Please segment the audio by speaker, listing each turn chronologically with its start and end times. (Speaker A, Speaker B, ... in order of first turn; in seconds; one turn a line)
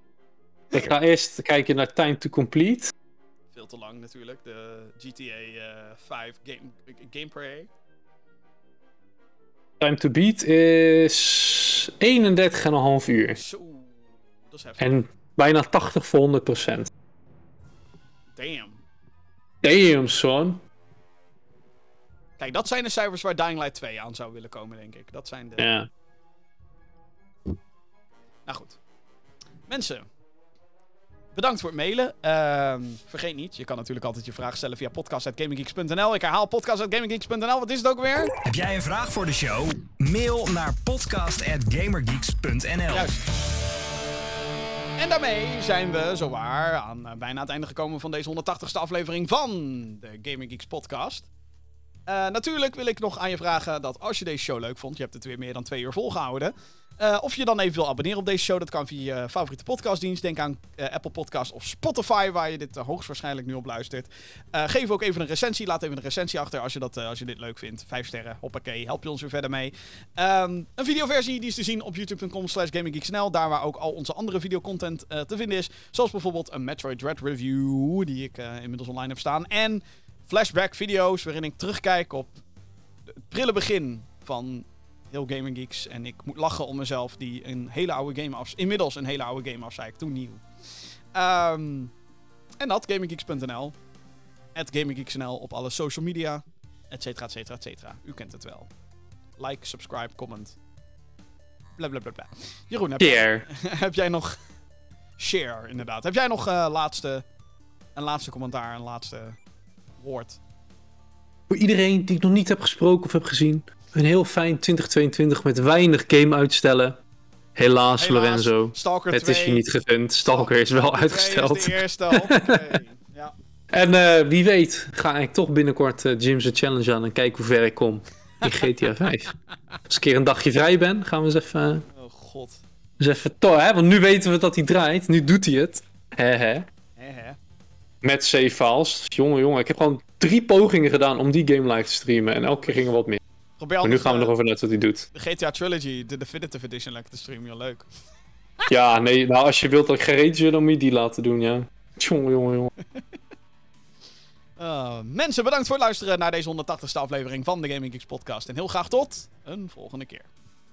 Speaker A: 0.7-2.9
Speaker B: 3.5-7.7
Speaker A: 9.8-13.4
Speaker B: 13.3-15.0
Speaker A: 14.8-16.9
Speaker B: 18.4-18.8
Speaker A: 19.6-20.6
Speaker B: 22.4-25.7
Speaker A: 25.6-25.9
Speaker B: 28.4-28.8
Speaker B: 29.7-30.1
Speaker B: 31.3-38.3
Speaker C: 38.4-43.2
Speaker B: 42.9-43.2
Speaker B: 45.0-51.3
Speaker B: 52.1-82.4
Speaker B: 83.2-90.4
Speaker B: 91.1-91.9
Speaker B: 92.6-93.7
Speaker B: 94.5-98.7
Speaker B: 99.4-100.6
Speaker B: 101.8-104.3
Speaker A: 103.0-103.5
Speaker B: 105.2-107.2
Speaker B: 108.0-109.4
Speaker B: 110.0-110.4
Speaker A: 111.5-117.0
Speaker A: 117.5-122.8
Speaker B: 118.0-119.7
Speaker B: 120.3-123.3
Speaker A: 123.7-129.3
Speaker A: 129.9-131.8
Speaker B: 131.9-132.6
Speaker A: 133.0-136.7
Speaker B: 137.0-137.4
Speaker A: 138.0-143.2
Speaker B: 143.6-144.3
Speaker A: 143.8-145.1
Speaker B: 145.1-147.9
Speaker A: 148.7-152.7
Speaker B: 154.6-160.3